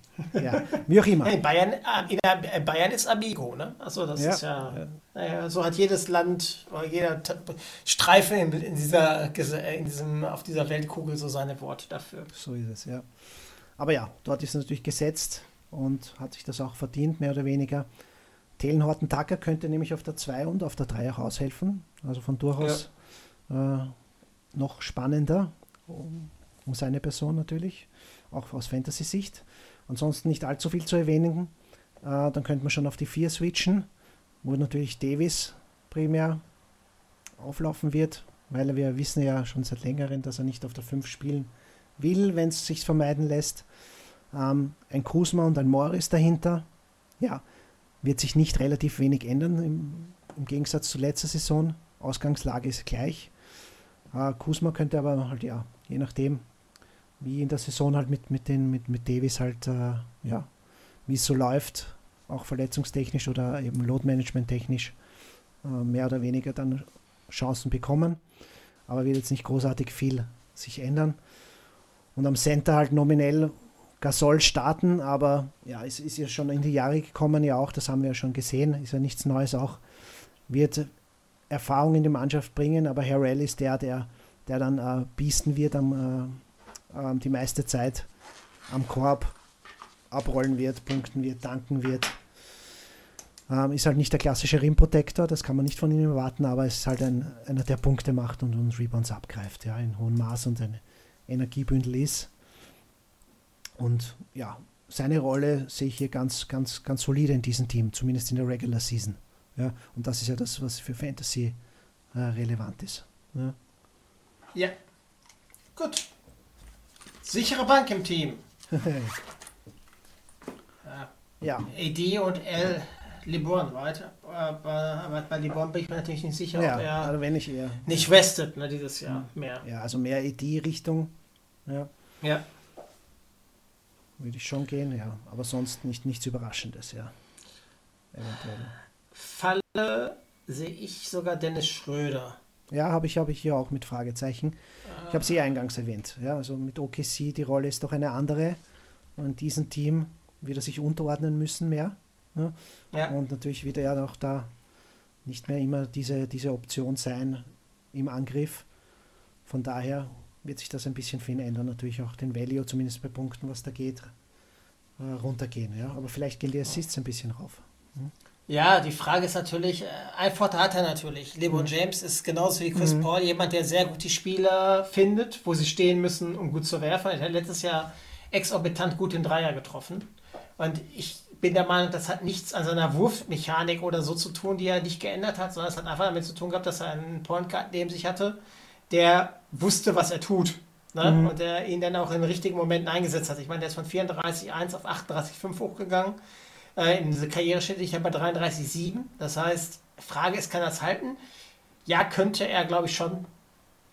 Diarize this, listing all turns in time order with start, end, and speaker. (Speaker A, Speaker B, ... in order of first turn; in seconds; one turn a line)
Speaker A: 0.3-0.7
Speaker B: 0.3-1.3
Speaker A: 1.2-12.3
Speaker B: 4.2-4.9
Speaker B: 12.3-13.1
Speaker B: 13.8-17.9
Speaker B: 18.6-22.9
Speaker B: 23.5-23.9
Speaker B: 24.5-33.9
Speaker B: 34.4-36.4
Speaker B: 37.4-43.6
Speaker B: 44.3-46.7
Speaker B: 48.0-53.3
Speaker B: 54.1-56.4
Speaker B: 57.2-60.5
Speaker B: 61.0-65.0
Speaker B: 65.6-68.2
Speaker B: 68.9-71.2
Speaker B: 72.1-79.8
Speaker B: 80.5-80.9
Speaker B: 81.5-88.1
Speaker B: 88.7-89.3
Speaker B: 90.1-92.2
Speaker B: 93.5-102.3
Speaker B: 103.8-111.6
Speaker B: 112.1-113.5
Speaker A: 115.8-116.0
Speaker A: 117.2-118.4
Speaker B: 118.7-119.1
Speaker A: 120.8-121.1
Speaker B: 121.4-121.7
Speaker A: 121.6-127.1
Speaker B: 126.5-128.1
Speaker A: 127.8-129.6
Speaker B: 129.1-131.1
Speaker B: 134.2-137.1
Speaker B: 138.1-138.7
Speaker A: 139.1-142.4
Speaker B: 142.7-144.6
Speaker A: 144.9-145.2
Speaker B: 145.1-148.6
Speaker B: 149.2-152.5
Speaker B: 153.1-154.5
Speaker B: 155.2-158.7
Speaker B: 159.4-164.1
Speaker B: 165.0-168.1
Speaker A: 168.5-188.4
Speaker B: 172.8-173.1
Speaker A: 188.9-196.2
Speaker B: 191.0-191.3
Speaker A: 196.8-201.2
Speaker A: 201.8-203.3